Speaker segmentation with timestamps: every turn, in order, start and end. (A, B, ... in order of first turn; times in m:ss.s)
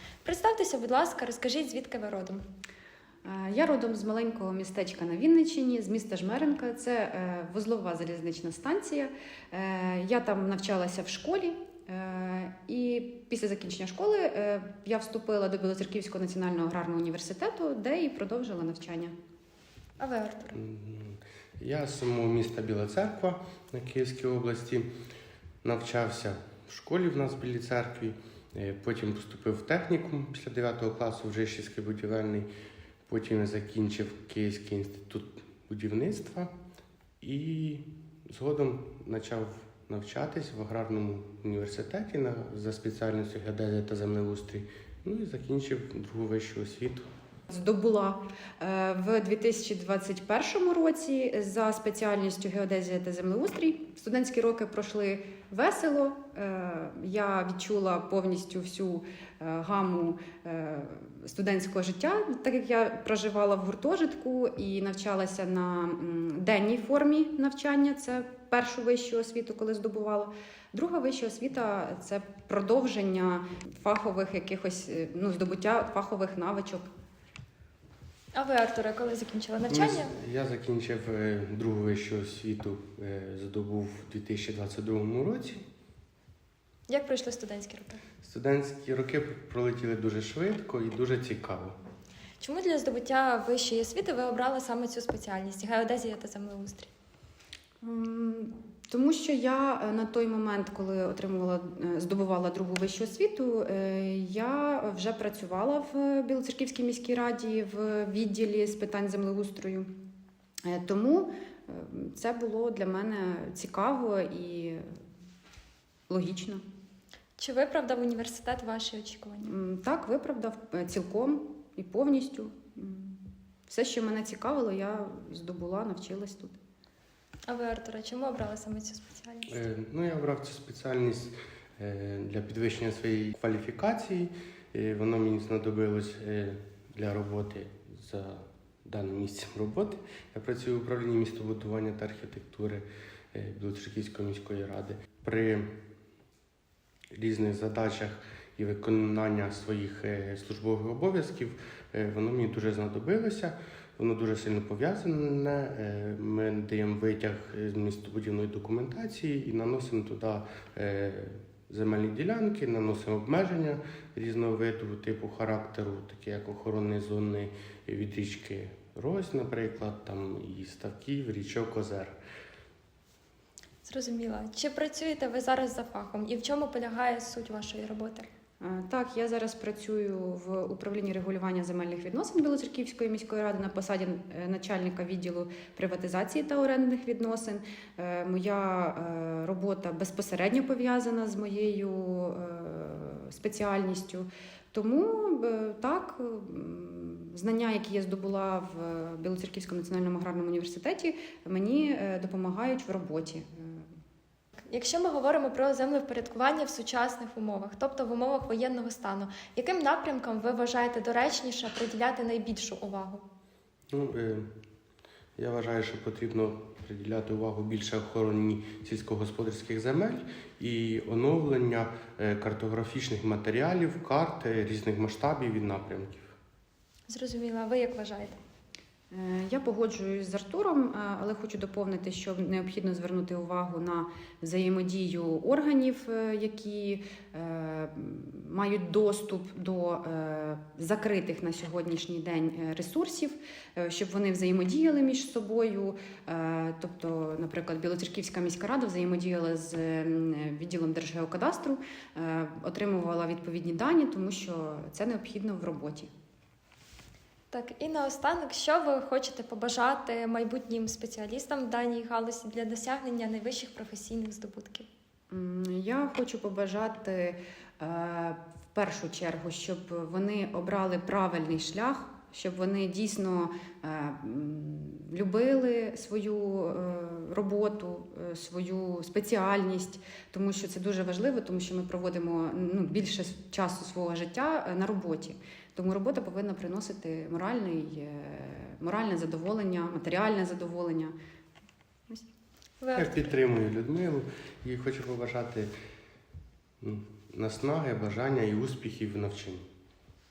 0:00.2-0:02.4 A
0:03.2-0:19.1 B
0:20.0-0:20.6 A
0:20.6-0:24.9 C
0:25.6-0:32.5 C
0:33.1-0:36.5 C
0:37.2-0:47.1 C
0:47.5-1:16.9 B
1:18.3-1:20.1 A
1:19.7-1:25.6 C
1:26.9-1:28.0 A
1:28.2-1:31.8 C
1:32.4-1:36.9 A
1:37.8-1:49.8 B
1:50.7-1:54.8 B
1:56.1-1:56.6 B
1:57.4-1:59.6 A
1:59.5-2:06.6 B
2:07.5-2:09.5 A
2:09.5-2:25.7 C
2:27.1-2:52.2 C
2:53.8-2:58.2 A
2:58.6-3:23.8 B
3:24.7-3:33.2 A
3:33.9-3:34.5 C
3:35.4-3:46.3 C
3:47.1-3:48.4 A
3:49.1-4:16.1 B
4:17.5-4:24.9 A
4:25.3-4:51.1 B
4:52.8-4:53.3 A
4:53.0-4:55.7 C
4:56.8-4:59.6 C